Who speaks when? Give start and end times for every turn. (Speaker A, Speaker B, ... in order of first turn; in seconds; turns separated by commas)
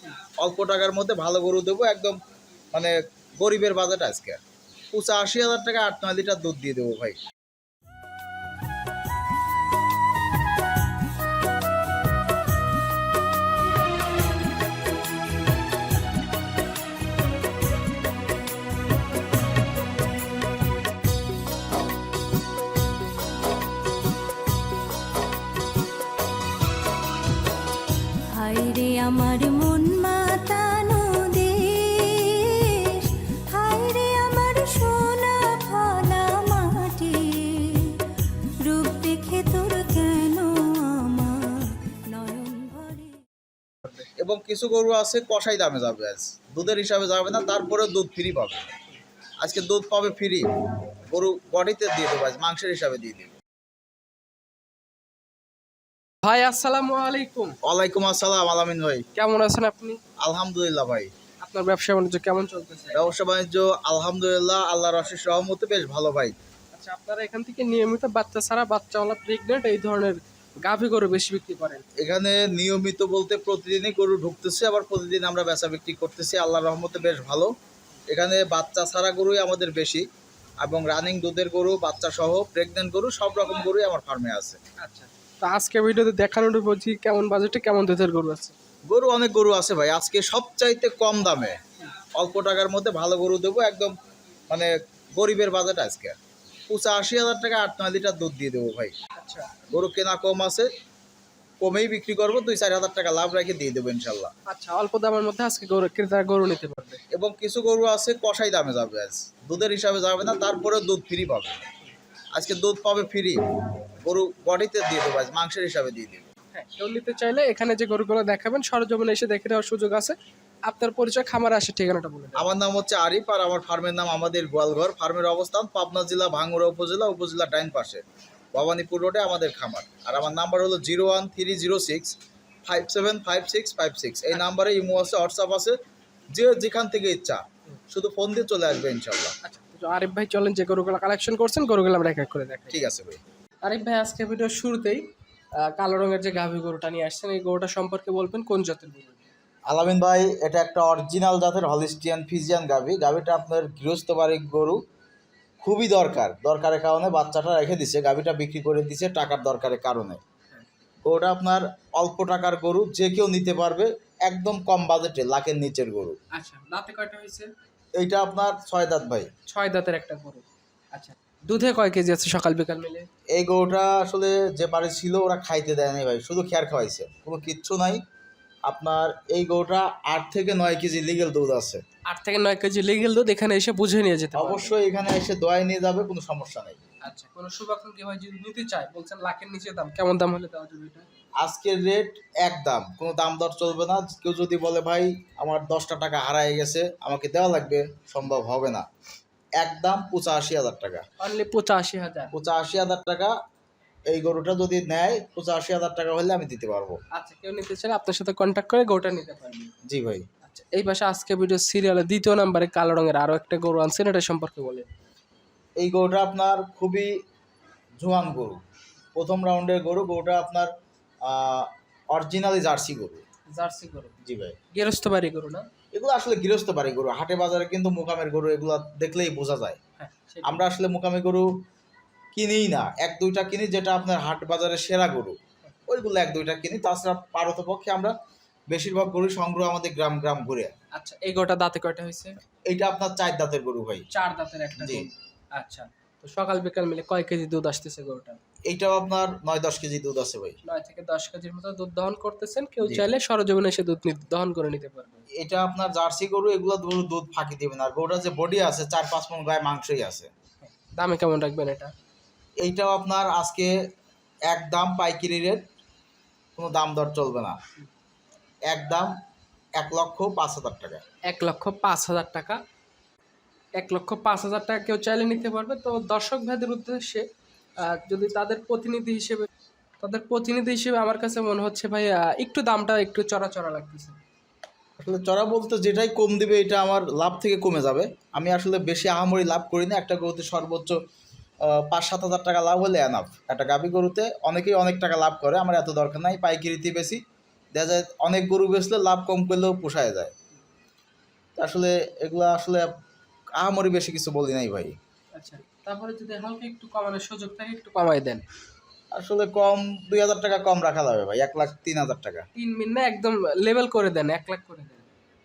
Speaker A: 0.4-2.2, Speaker A: 2.7-4.4, Speaker A: 4.9-7.2, Speaker B: 28.3-43.2, Speaker A: 44.2-48.7, Speaker A: 49.4-50.5, Speaker A: 51.0-53.4, Speaker C: 56.2-57.6, Speaker A: 57.6-59.0, Speaker C: 59.1-60.0, Speaker A: 60.2-61.1, Speaker C: 61.4-63.1, Speaker A: 62.9-66.3, Speaker C: 66.7-71.8, Speaker A: 72.0-77.5, Speaker A: 78.1-80.0, Speaker A: 80.6-84.6, Speaker C: 84.8-88.5, Speaker A: 88.9-91.6, Speaker A: 92.1-93.9, Speaker A: 94.5-96.2, Speaker A: 96.7-98.9, Speaker C: 99.2-99.7, Speaker A: 99.7-100.7, Speaker A: 101.6-104.3, Speaker C: 104.5-107.0, Speaker A: 107.1-111.6, Speaker A: 112.3-113.4, Speaker A: 114.0-116.3, Speaker C: 116.5-122.5, Speaker A: 122.3-132.1, Speaker A: 132.7-135.8, Speaker A: 136.3-139.3, Speaker C: 139.4-142.8, Speaker A: 142.7-143.2, Speaker C: 143.6-145.0, Speaker C: 145.6-149.3, Speaker A: 149.7-154.8, Speaker A: 155.6-160.2, Speaker A: 161.0-166.2, Speaker C: 166.3-167.5, Speaker A: 167.9-169.3, Speaker C: 169.5-173.1, Speaker A: 173.3-178.0, Speaker A: 178.7-181.8, Speaker C: 182.1-184.8, Speaker A: 184.3-186.8, Speaker C: 187.0-191.1, Speaker A: 191.4-198.8, Speaker A: 199.6-201.0, Speaker C: 201.2-202.3, Speaker A: 202.3-203.3, Speaker A: 204.1-207.0, Speaker C: 207.1-209.7, Speaker A: 209.9-210.2, Speaker C: 210.4-214.9, Speaker A: 215.8-217.1, Speaker A: 218.0-218.6, Speaker A: 219.1-220.7, Speaker A: 221.2-223.2, Speaker C: 223.5-224.2, Speaker A: 224.2-224.6, Speaker C: 224.7-225.7, Speaker A: 225.9-229.8, Speaker C: 230.0-230.7, Speaker A: 230.4-231.5, Speaker A: 232.3-235.3, Speaker A: 235.9-238.1, Speaker A: 238.7-240.7, Speaker C: 240.9-242.4, Speaker A: 242.7-244.1, Speaker C: 244.1-248.4, Speaker A: 244.8-245.1, Speaker A: 248.7-250.6, Speaker C: 250.6-255.2, Speaker A: 255.4-260.3, Speaker C: 260.6-261.9, Speaker A: 262.6-263.7, Speaker A: 264.5-265.7, Speaker A: 266.6-267.6, Speaker A: 268.7-269.1, Speaker A: 269.8-271.0, Speaker C: 271.3-272.6, Speaker C: 273.8-277.2, Speaker C: 277.8-279.4, Speaker C: 280.0-284.2, Speaker A: 285.0-291.0, Speaker A: 291.6-297.2, Speaker A: 297.7-300.3, Speaker A: 301.6-302.9, Speaker A: 303.6-304.9, Speaker C: 305.3-308.4, Speaker A: 309.1-312.4, Speaker C: 312.6-315.1